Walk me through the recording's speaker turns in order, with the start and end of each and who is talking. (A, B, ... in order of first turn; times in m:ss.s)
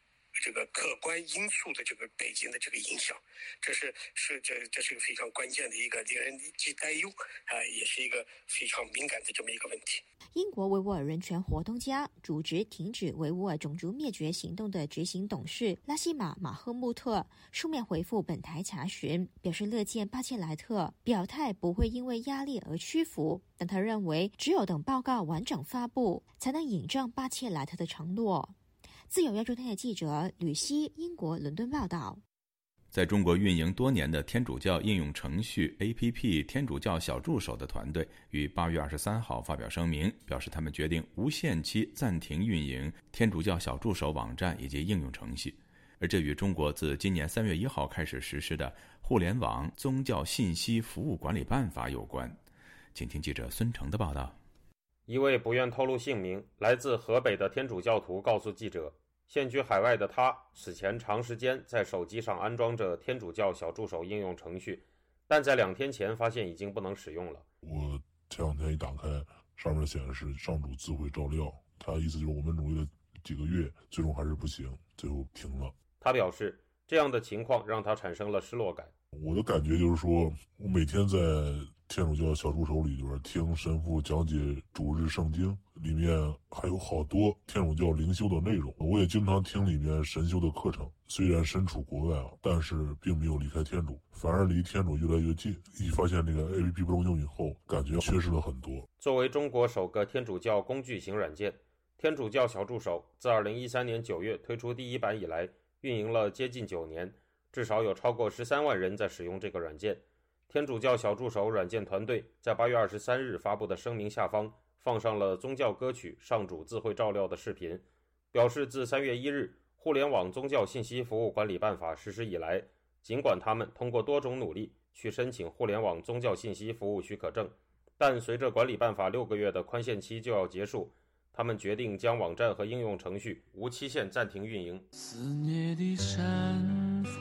0:00.4-0:10.0 A
0:10.3-0:28.5 B
0:29.1-0:32.2 B
0:32.9-0:52.4 C
0:52.9-0:54.4 C
0:55.1-1:07.4 D
1:07.6-1:15.7 E
1:16.0-1:18.9 D
1:19.1-1:38.9 E
1:39.0-2:14.8 D